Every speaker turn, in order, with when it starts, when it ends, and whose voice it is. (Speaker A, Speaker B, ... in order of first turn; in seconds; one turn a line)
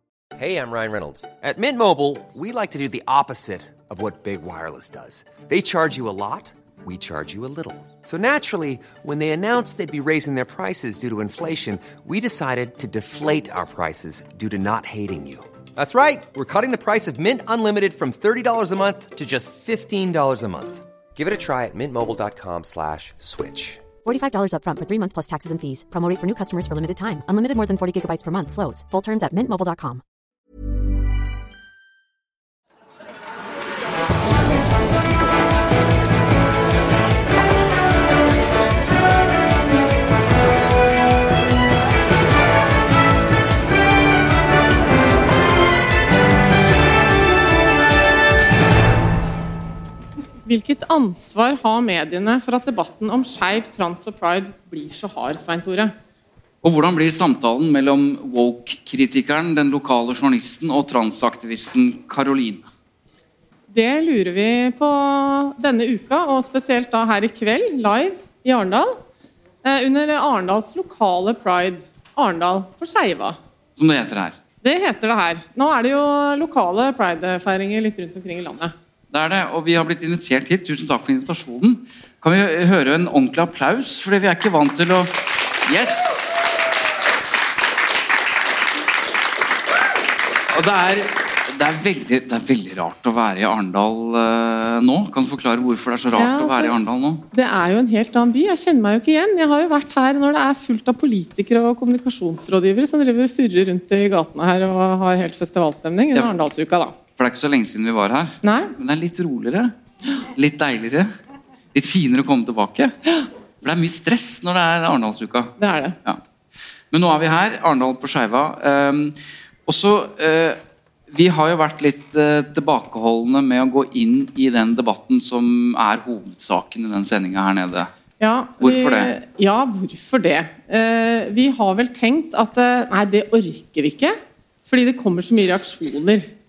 Speaker A: 0.4-23.9
Speaker B: 24.0-30.0
Speaker C: 50.5-55.9
Speaker D: 56.6-62.7
Speaker C: 63.7-69.0
Speaker C: 69.6-73.4
Speaker D: 73.8-74.4
Speaker C: 74.6-78.7
Speaker D: 79.1-85.2
Speaker D: 85.7-86.4
Speaker D: 90.5-97.2
Speaker C: 96.2-96.8
Speaker C: 97.3-106.9
Speaker D: 107.2-109.7
Speaker C: 108.4-108.7
Speaker D: 110.3-111.1
Speaker D: 111.7-112.9
Speaker D: 113.6-116.2
Speaker C: 115.6-116.0
Speaker D: 116.9-119.2
Speaker D: 119.7-120.6
Speaker D: 121.1-127.9
Speaker C: 128.2-136.3
Speaker D: 128.6-129.1